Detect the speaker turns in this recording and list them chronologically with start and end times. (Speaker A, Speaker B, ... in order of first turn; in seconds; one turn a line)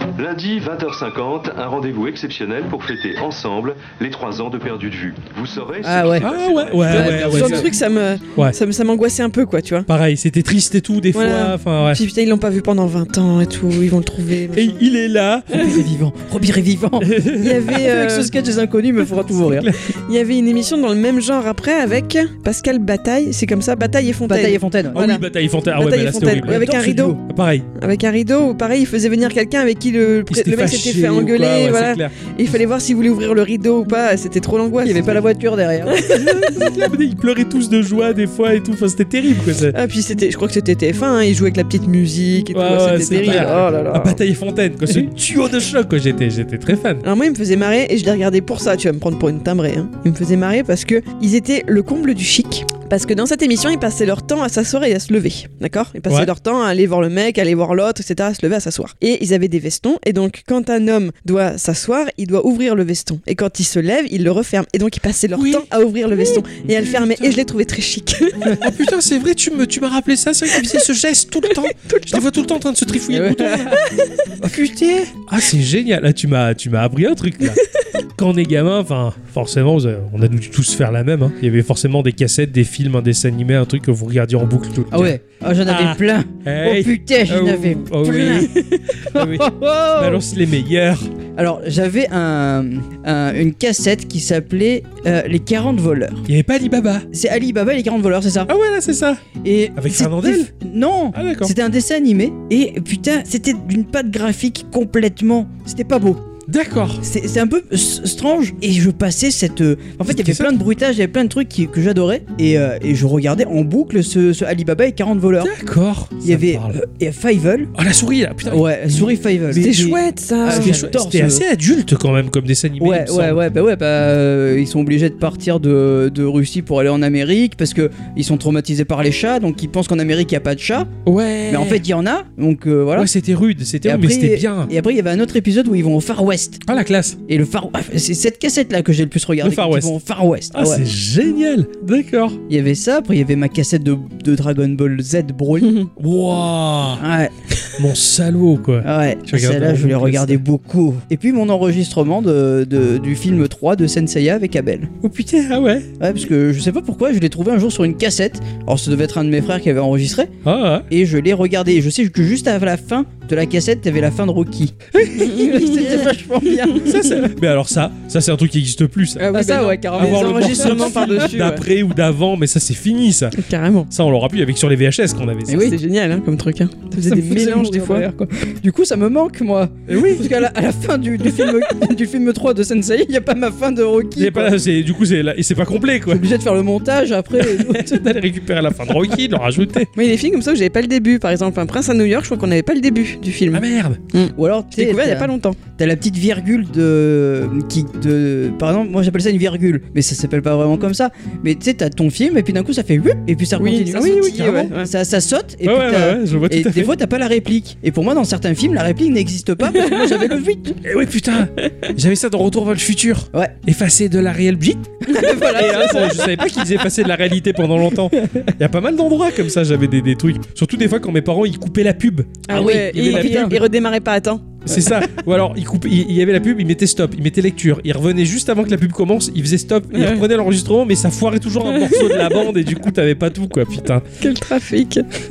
Speaker A: 0.2-7.0
Speaker B: 5.8-6.3
Speaker C: 6.2-7.7
Speaker B: 6.8-7.7
Speaker D: 6.9-9.9
Speaker C: 9.9-12.0
Speaker D: 11.2-14.8
Speaker C: 14.5-15.7
Speaker B: 15.5-19.7
Speaker C: 17.0-17.6
Speaker D: 17.4-18.3
Speaker C: 19.4-19.8
Speaker D: 20.1-25.2
Speaker B: 24.3-25.0
Speaker C: 24.9-27.7
Speaker D: 25.8-27.2
Speaker B: 26.4-27.2
Speaker D: 27.8-35.2
Speaker C: 30.3-32.3
Speaker B: 34.8-36.0
Speaker D: 35.9-36.5
Speaker C: 36.1-39.8
Speaker D: 39.7-44.2
Speaker C: 42.5-47.0
Speaker B: 43.2-43.7
Speaker D: 47.0-68.5
Speaker C: 65.3-67.3
Speaker C: 68.6-73.8
Speaker D: 71.8-72.2
Speaker B: 73.1-73.8
Speaker D: 74.0-74.3
Speaker C: 74.4-77.6
Speaker C: 78.2-91.1
Speaker B: 84.9-88.5
Speaker B: 89.1-90.2
Speaker B: 91.4-96.3
Speaker C: 96.3-97.1
Speaker B: 97.1-98.5
Speaker C: 98.5-99.2
Speaker B: 99.4-106.2
Speaker C: 99.8-100.5
Speaker C: 101.1-101.5
Speaker C: 106.5-107.0
Speaker B: 107.0-115.5
Speaker C: 110.1-110.5
Speaker C: 115.4-116.8
Speaker B: 116.2-117.7
Speaker C: 117.8-123.4
Speaker B: 118.5-121.5
Speaker D: 119.5-120.8
Speaker B: 122.8-130.9
Speaker C: 131.1-131.8
Speaker B: 131.5-133.1
Speaker C: 132.9-134.7
Speaker B: 133.8-136.6
Speaker C: 136.7-137.2
Speaker B: 137.3-140.8
Speaker C: 139.4-139.9
Speaker C: 140.5-142.4
Speaker B: 142.5-145.8
Speaker C: 146.0-147.0
Speaker B: 147.0-147.3
Speaker C: 147.8-150.4
Speaker B: 148.8-154.9
Speaker C: 155.0-155.9
Speaker B: 156.0-160.3
Speaker C: 160.4-160.9
Speaker B: 160.9-167.2
Speaker C: 164.9-165.9
Speaker D: 165.4-165.7
Speaker C: 166.8-175.8
Speaker B: 169.2-171.3
Speaker D: 169.2-171.6
Speaker D: 173.3-173.9
Speaker B: 175.5-175.8
Speaker D: 175.6-178.1
Speaker B: 176.9-184.6
Speaker C: 179.9-180.4
Speaker C: 184.2-186.2
Speaker B: 186.1-188.0
Speaker C: 187.4-189.9
Speaker D: 190.0-195.6
Speaker C: 193.5-194.0
Speaker B: 194.4-210.8
Speaker D: 203.6-204.9
Speaker C: 204.2-204.7
Speaker C: 205.7-206.9
Speaker C: 210.8-223.6
Speaker B: 215.1-216.2
Speaker D: 215.2-215.9
Speaker D: 222.5-224.6
Speaker B: 222.5-223.6
Speaker C: 224.7-234.1
Speaker D: 229.9-230.2
Speaker D: 231.8-232.3
Speaker D: 234.2-235.1